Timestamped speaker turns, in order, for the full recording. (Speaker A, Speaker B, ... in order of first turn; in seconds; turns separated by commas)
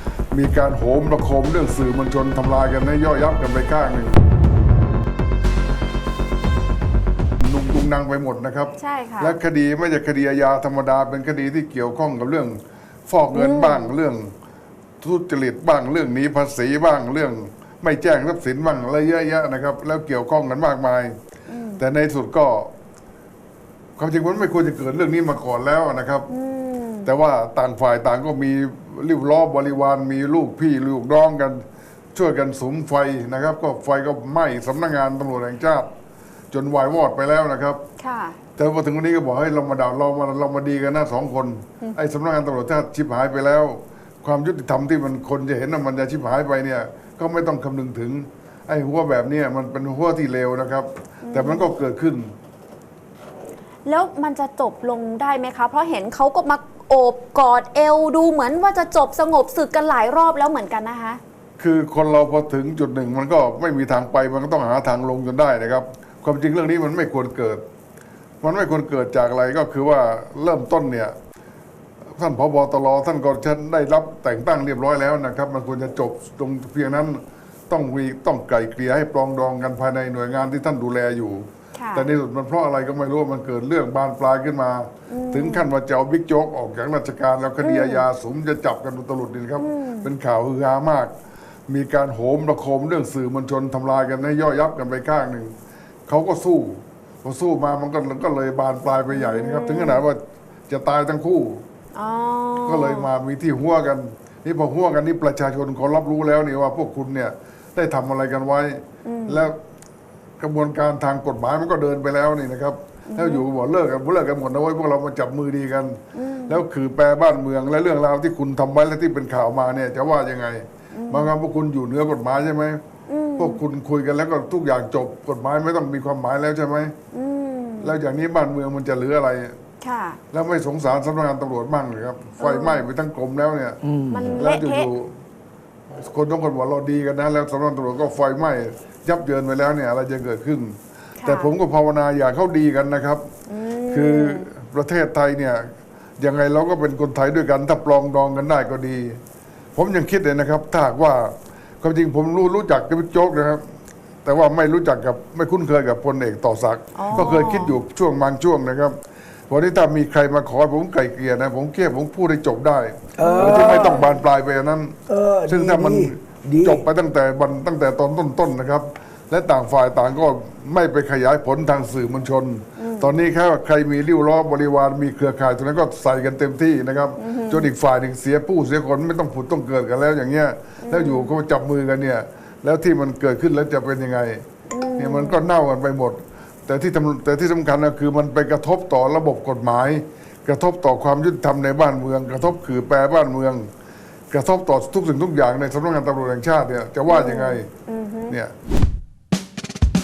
Speaker A: 0.3-4.2, Speaker A: 7.4-12.6, Speaker B: 8.8-9.4, Speaker A: 13.1-14.3, Speaker B: 13.3-13.9, Speaker A: 15.0-21.1, Speaker B: 21.5-21.8, Speaker A: 21.8-22.7, Speaker A: 24.0-26.3, Speaker B: 26.3-27.1, Speaker A: 27.0-31.6, Speaker A: 32.1-35.9, Speaker A: 36.5-37.8, Speaker B: 38.0-38.4, Speaker A: 38.6-52.3, Speaker B: 51.2-51.7, Speaker B: 53.9-61.2, Speaker A: 61.6-67.6, Speaker A: 68.4-71.1, Speaker A: 72.2-91.1, Speaker B: 81.8-82.1, Speaker B: 85.1-85.7, Speaker B: 87.6-88.0, Speaker B: 89.6-90.1, Speaker A: 91.7-95.5, Speaker A: 96.1-101.6, Speaker B: 99.1-100.0, Speaker B: 101.9-103.1, Speaker A: 102.6-109.5, Speaker B: 109.0-109.5, Speaker A: 110.4-122.8, Speaker B: 113.1-113.4, Speaker B: 116.1-116.6, Speaker B: 120.9-121.3, Speaker B: 123.1-123.6, Speaker A: 123.4-126.9, Speaker B: 127.1-128.0, Speaker A: 127.8-129.5, Speaker B: 129.8-130.2, Speaker A: 130.3-133.8, Speaker B: 132.4-132.8, Speaker C: 133.8-134.4, Speaker B: 134.1-134.9, Speaker A: 134.3-135.1, Speaker A: 135.9-143.2, Speaker B: 141.2-141.5, Speaker B: 143.5-144.5, Speaker A: 143.9-145.7, Speaker A: 146.2-149.2, Speaker A: 149.7-153.6, Speaker A: 154.2-158.9, Speaker B: 156.9-157.8, Speaker A: 159.5-164.9, Speaker C: 163.2-164.0, Speaker B: 163.2-164.2, Speaker C: 165.1-166.8, Speaker A: 165.5-184.4, Speaker B: 172.8-173.2, Speaker B: 177.2-177.7, Speaker B: 180.8-181.3, Speaker B: 184.7-185.4, Speaker A: 185.0-193.7, Speaker A: 194.3-197.7, Speaker B: 197.1-198.3